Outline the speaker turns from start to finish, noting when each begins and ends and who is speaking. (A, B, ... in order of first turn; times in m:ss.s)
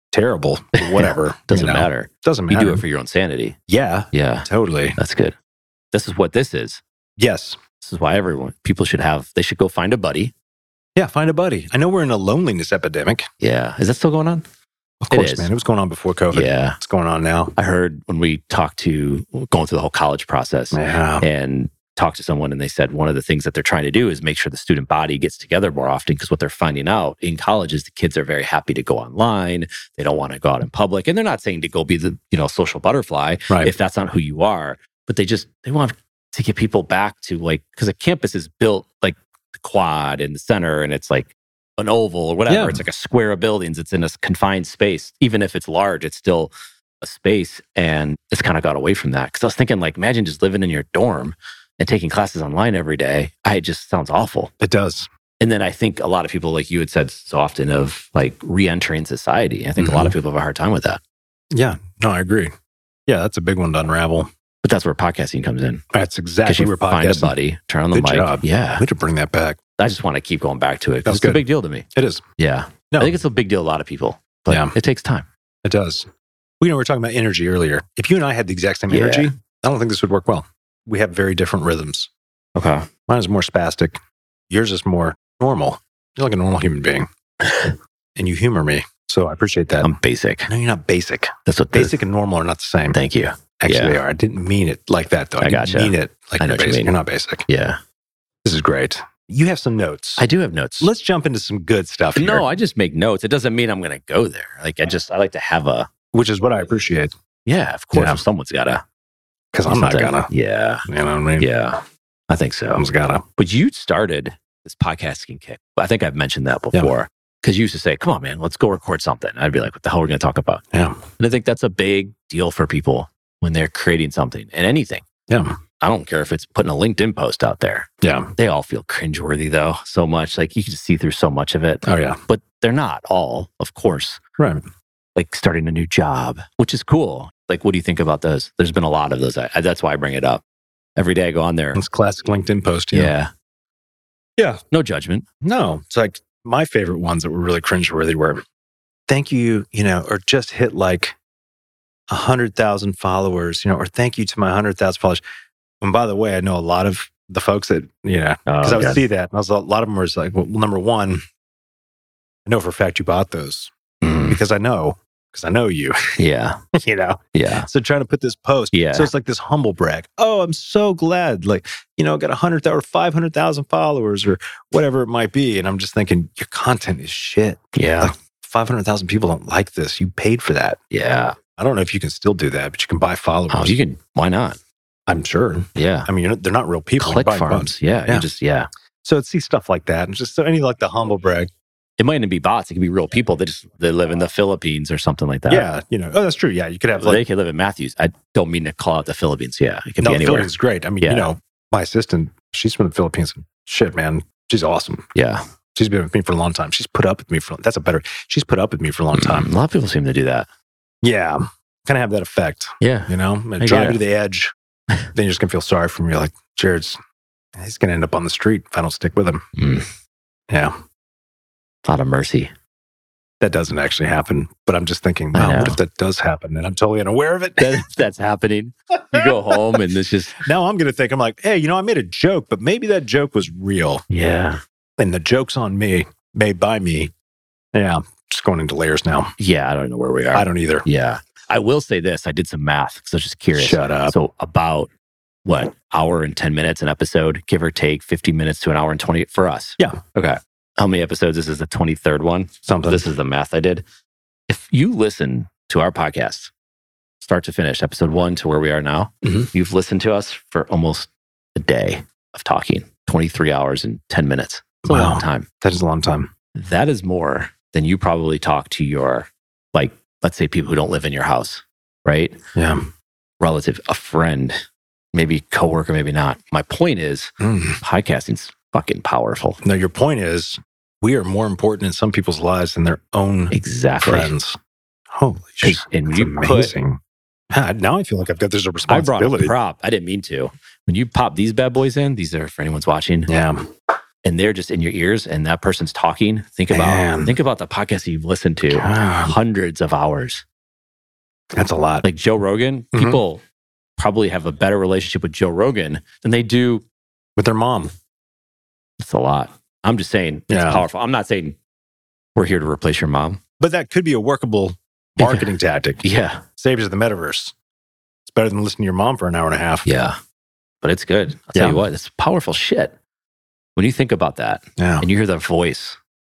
0:00.1-0:02.8 A
0:01.0-0:03.6 B
0:03.7-0:05.0 A
0:04.1-0:05.4 B
0:05.9-0:06.8 B
0:07.2-0:07.6 A
0:07.8-0:10.3 B
0:11.0-0:13.3 A
0:13.4-0:14.4 B
0:15.0-0:17.5 A
0:15.1-0:15.5 B
0:16.3-0:16.8 B
0:17.6-0:54.5 B
0:20.7-0:21.3 A
0:42.5-0:42.8 A
0:54.6-0:55.1 A
0:55.4-1:01.0 B
0:59.8-1:00.2 A
1:01.5-1:02.5 A
1:03.1-1:04.3 A
1:04.6-1:05.8 B
1:05.9-1:07.4 A
1:06.4-1:08.8 B
1:07.9-1:09.6 A
1:09.8-1:11.8 B
1:11.1-1:11.4 A
1:12.0-1:12.2 A
1:12.4-1:15.3 B
1:14.5-1:14.7 A
1:15.6-1:16.1 A
1:16.6-1:22.1 A
1:18.9-1:19.3 B
1:22.6-1:22.9 B
1:23.1-1:24.0 A
1:24.5-1:27.1 A
1:27.4-1:27.8 B
1:28.2-1:29.9 A
1:29.8-1:30.5 B
1:30.5-1:33.0 A
1:31.5-1:32.0 B
1:32.9-1:34.0 B
1:33.6-1:37.5 A
1:35.4-1:36.9 B
1:37.5-1:37.8 B
1:38.4-1:40.2 A
1:40.2-1:40.9 B
1:40.8-1:42.4 A
1:42.2-1:45.9 B
1:46.1-1:47.1 A
1:47.5-1:48.8 B
1:47.9-1:48.2 A
1:49.5-1:50.3 A
1:49.7-1:50.8 B
1:50.9-1:51.5 A
1:51.4-1:52.8 B
1:52.7-1:53.2 A
1:53.4-2:00.6 B
2:00.7-2:01.0 A
2:01.2-2:05.0 B
2:05.3-2:05.6 A
2:05.8-2:14.2 B
2:08.0-2:08.3 A
2:11.8-2:12.2 A
2:14.4-2:14.6 A
2:15.2-2:20.4 B
2:21.0-2:21.8 B
2:21.8-2:23.1 A
2:22.9-2:23.3 B
2:24.7-2:25.2 B
2:25.4-2:28.4 A
2:29.1-2:31.2 A
2:32.1-2:35.2 A
2:35.8-2:41.2 A
2:38.5-2:39.0 B
2:42.5-2:43.7 A
2:44.0-2:44.4 B
2:44.3-2:46.0 A
2:46.2-2:46.6 B
2:46.7-3:00.8 A
2:47.3-2:47.7 B
2:48.7-2:49.1 B
2:57.7-2:58.1 B
3:00.9-3:01.4 B
3:01.6-3:03.8 A
3:03.5-3:04.6 B
3:05.1-3:08.3 A
3:05.8-3:06.1 B
3:07.0-3:08.7 B
3:09.0-3:11.5 A
3:12.0-3:15.7 B
3:15.5-3:17.2 A
3:17.0-3:21.3 B
3:20.0-3:25.1 A
3:25.2-3:25.4 B
3:25.8-3:29.5 A
3:29.1-3:30.5 B
3:31.0-3:34.5 A
3:32.8-3:34.0 B
3:35.1-3:37.0 A
3:37.6-3:39.4 A
3:39.6-3:39.9 B
3:40.5-3:40.8 A
3:41.8-3:42.5 B
3:43.4-3:47.8 A
3:45.3-3:45.8 B
3:47.6-3:50.4 B
3:50.4-3:54.0 A
3:54.1-3:54.6 B
3:55.0-3:57.1 A
3:57.7-3:59.3 A
3:59.4-4:04.9 B
4:00.3-4:00.9 A
4:03.5-4:04.1 A
4:05.4-4:13.8 B
4:12.7-4:13.1 A
4:14.5-4:16.5 B
4:17.2-4:25.5 B
4:19.2-4:19.5 A
4:24.9-4:26.3 A
4:26.6-4:32.4 B
4:32.6-4:32.9 A
4:33.4-4:34.6 B
4:35.1-4:39.6 B
4:37.4-4:37.8 A
4:39.6-4:44.6 A
4:43.5-4:44.3 B
4:45.1-4:47.0 A
4:45.6-4:46.7 B
4:47.5-4:49.5 A
4:48.9-4:53.3 B
4:53.3-4:53.6 A
4:54.2-5:00.4 B
4:56.7-4:57.4 A
4:58.7-4:59.4 A
5:01.5-5:02.1 A
5:02.0-5:03.4 B
5:02.9-5:03.2 A
5:04.0-5:06.8 B
5:07.4-5:07.9 A
5:09.0-5:11.6 B
5:10.5-5:10.9 A
5:12.4-5:13.4 B
5:13.6-5:16.0 A
5:15.2-5:16.4 B
5:16.6-5:17.6 A
5:18.3-5:19.9 A
5:19.8-5:20.2 B
5:20.8-5:23.0 B
5:21.6-5:21.8 A
5:23.8-5:26.0 B
5:24.8-5:25.1 A